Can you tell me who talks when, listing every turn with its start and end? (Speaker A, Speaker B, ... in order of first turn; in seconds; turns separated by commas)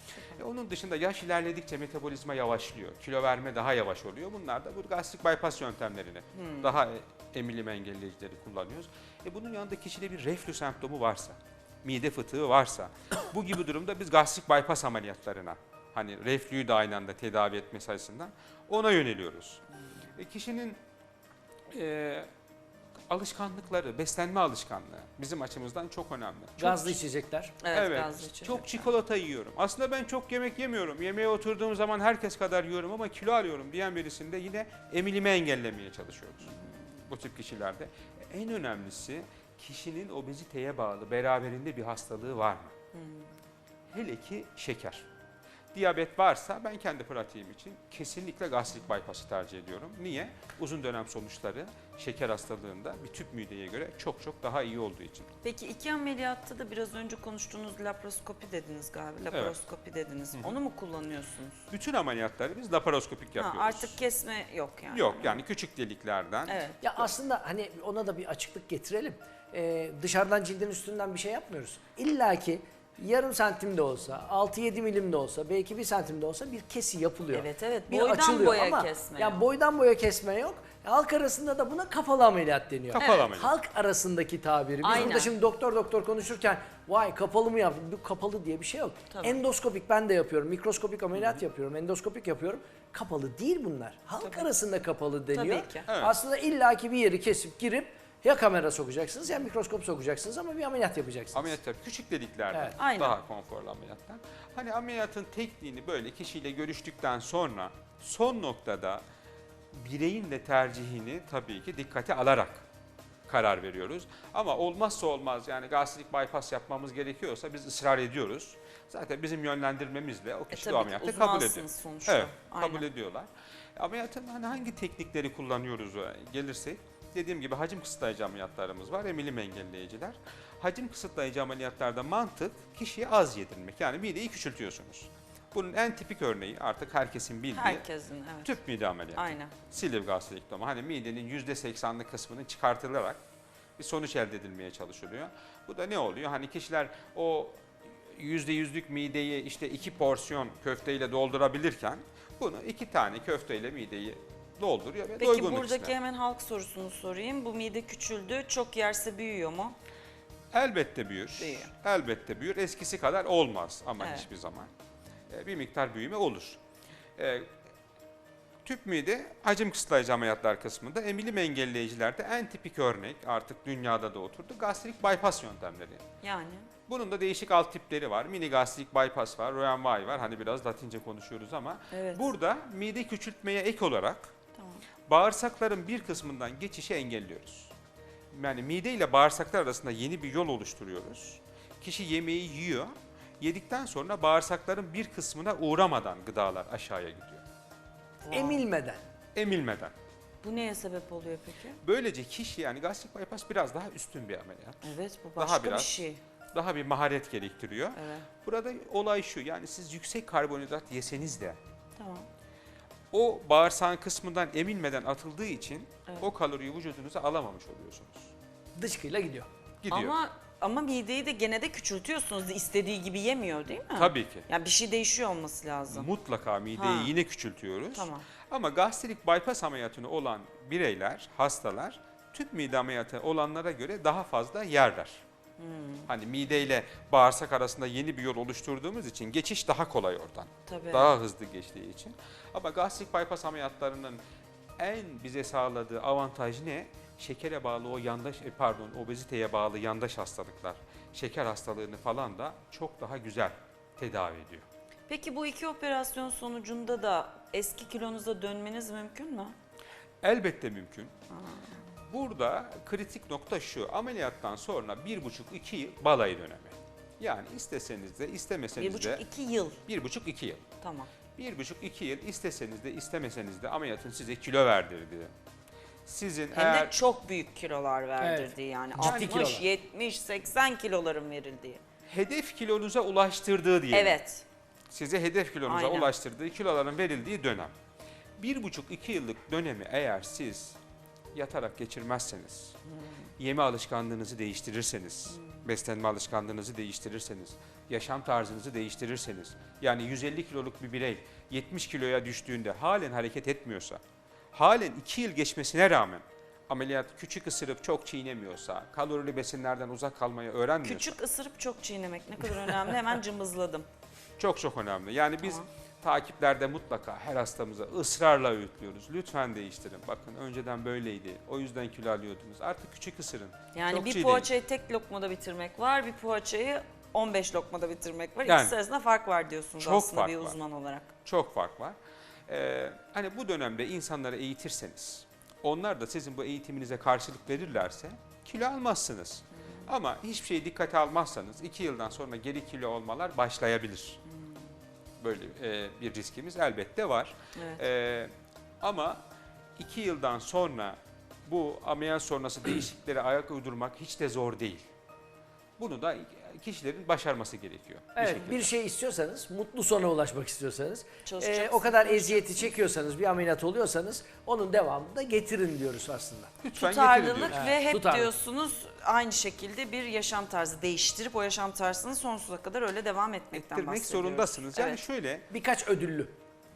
Speaker A: 0.1-0.4, Speaker B: 0.4-19.6, Speaker A: 6.3-6.8, Speaker B: 20.2-20.8, Speaker B: 21.7-22.3, Speaker B: 23.1-27.0, Speaker C: 26.6-27.6, Speaker A: 27.6-28.9, Speaker B: 27.7-36.5, Speaker A: 36.5-36.7, Speaker B: 37.1-42.7, Speaker A: 42.9-43.3, Speaker B: 43.9-45.1, Speaker B: 45.7-55.3, Speaker A: 55.4-61.6, Speaker B: 59.3-59.6, Speaker B: 61.7-64.0, Speaker A: 63.4-65.4, Speaker B: 64.9-67.0, Speaker A: 66.5-66.8, Speaker C: 66.8-101.6, Speaker A: 77.3-79.4, Speaker B: 82.9-83.5, Speaker A: 83.0-83.2, Speaker A: 84.8-85.3, Speaker A: 89.1-89.4, Speaker B: 91.1-91.4, Speaker A: 94.2-94.5, Speaker A: 95.3-95.8, Speaker B: 95.9-96.2, Speaker B: 101.3-109.0, Speaker A: 102.8-103.2, Speaker B: 109.7-112.6, Speaker B: 113.3-137.8, Speaker A: 120.5-122.9, Speaker A: 137.5-138.6, Speaker B: 138.4-143.2, Speaker A: 139.1-139.5, Speaker B: 143.8-147.6, Speaker B: 148.1-155.9, Speaker A: 155.1-159.7, Speaker B: 160.5-164.7, Speaker A: 161.4-161.7, Speaker A: 164.0-164.3, Speaker B: 165.3-166.6, Speaker B: 167.2-167.5, Speaker B: 168.6-176.0, Speaker A: 176.2-176.7, Speaker B: 176.9-184.3, Speaker A: 181.9-182.3, Speaker A: 184.6-184.8, Speaker B: 185.1-187.7, Speaker B: 188.3-197.4, Speaker A: 198.2-198.6, Speaker C: 198.3-199.0, Speaker B: 199.3-199.9, Speaker A: 200.4-201.8, Speaker B: 201.8-206.0, Speaker A: 204.8-206.2, Speaker B: 206.5-211.6, Speaker A: 207.9-208.3, Speaker A: 212.0-212.3, Speaker B: 213.1-218.3, Speaker C: 218.8-219.5, Speaker B: 219.8-220.2, Speaker A: 219.9-226.1, Speaker B: 223.9-224.4, Speaker B: 225.9-235.2, Speaker A: 226.7-227.1, Speaker A: 227.9-228.2, Speaker A: 235.6-236.1, Speaker B: 236.1-244.2, Speaker A: 240.7-241.1, Speaker B: 244.8-254.6, Speaker A: 255.1-259.5, Speaker B: 260.2-261.1, Speaker A: 261.3-261.8, Speaker B: 262.1-269.2, Speaker A: 268.8-269.8, Speaker B: 269.9-270.6, Speaker A: 270.8-271.1, Speaker B: 271.4-275.3, Speaker B: 276.1-276.9, Speaker A: 276.5-281.8, Speaker C: 278.2-279.7, Speaker B: 278.9-279.5, Speaker B: 282.1-284.1, Speaker A: 283.9-284.4, Speaker B: 284.9-287.7, Speaker A: 285.6-286.1, Speaker B: 288.4-290.8, Speaker B: 291.3-292.7, Speaker B: 293.4-304.0, Speaker A: 295.3-295.7, Speaker B: 304.5-311.1, Speaker A: 310.8-313.9, Speaker B: 314.4-324.5, Speaker A: 323.7-331.1, Speaker B: 328.4-328.7, Speaker B: 329.8-330.6, Speaker B: 331.2-331.9, Speaker B: 332.5-344.2, Speaker A: 344.3-344.7, Speaker B: 345.2-349.2, Speaker A: 347.5-347.8, Speaker B: 349.8-354.9, Speaker B: 355.8-358.7, Speaker C: 358.1-366.5, Speaker A: 361.2-362.7, Speaker B: 366.6-367.6, Speaker A: 366.8-375.0, Speaker C: 367.5-368.3, Speaker B: 373.5-375.5, Speaker C: 375.5-376.4